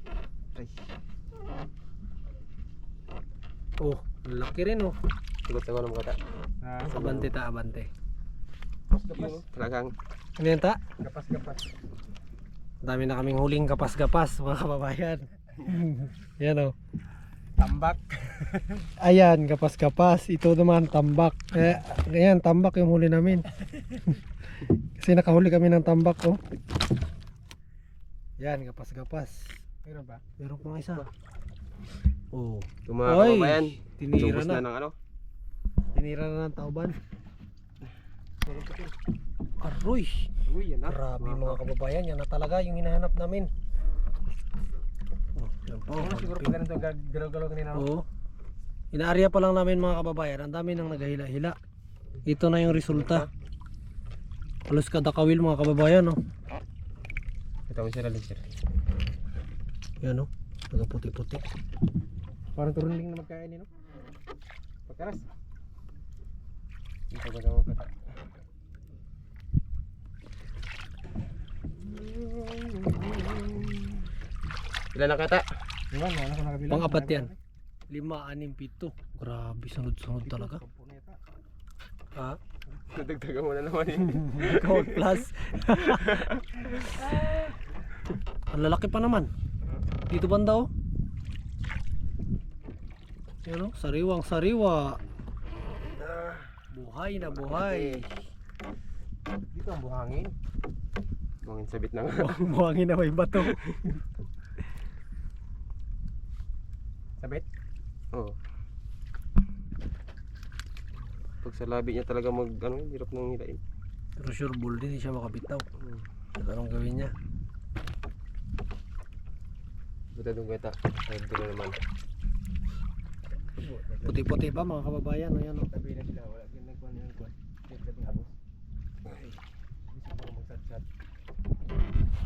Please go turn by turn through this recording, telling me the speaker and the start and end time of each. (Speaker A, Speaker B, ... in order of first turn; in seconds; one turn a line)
Speaker A: 3.8-5.0
Speaker B: 5.5-6.2
Speaker C: 6.6-6.9
Speaker B: 6.9-7.3
Speaker A: 6.9-7.9
Speaker C: 8.9-9.4
Speaker B: 9.1-9.9
Speaker A: 10.4-10.8
Speaker C: 11.0-11.6
Speaker A: 12.8-16.7
Speaker C: 17.6-18.9
Speaker A: 19.0-23.5
Speaker A: 25.0-26.4
Speaker A: 28.4-29.6
Speaker C: 29.8-30.2
Speaker A: 30.4-31.1
Speaker A: 32.3-34.6
Speaker B: 32.9-34.9
Speaker A: 35.9-37.0
Speaker C: 38.4-38.9
Speaker A: 39.6-40.3
Speaker C: 40.4-41.0
Speaker A: 40.9-43.5
Speaker A: 45.3-46.6
Speaker C: 45.9-47.9
Speaker A: 47.7-48.0
Speaker A: 48.9-51.5
Speaker A: 52.2-53.3
Speaker B: 52.9-53.3
Speaker A: 54.7-56.2
Speaker B: 57.7-58.4
Speaker A: 60.0-61.4
Speaker C: 62.5-63.7
Speaker C: 64.9-65.2
Speaker B: 67.1-67.9
Speaker B: 72.3-73.8
Speaker B: 74.9-75.5
Speaker C: 75.9-77.4
Speaker A: 76.7-77.3
Speaker A: 77.9-80.6
Speaker C: 80.2-81.2
Speaker B: 82.9-85.2
Speaker A: 84.0-86.2
Speaker B: 85.8-87.5
Speaker A: 88.5-89.3
Speaker A: 90.1-90.7
Speaker A: 93.4-95.0
Speaker B: 96.0-96.5
Speaker A: 96.7-98.2
Speaker B: 97.3-98.0
Speaker C: 99.5-100.3
Speaker B: 101.4-102.5
Speaker A: 102.2-103.6
Speaker B: 103.4-104.0
Speaker C: 107.2-107.5
Speaker B: 111.4-113.6
Speaker A: 114.2-115.6
Speaker A: 116.4-117.1
Speaker B: 120.1-121.8
Speaker C: 123.6-124.4
Speaker A: 124.0-125.7
Speaker C: 125.7-128.3
Speaker B: 129.1-129.3
Speaker C: 129.9-130.8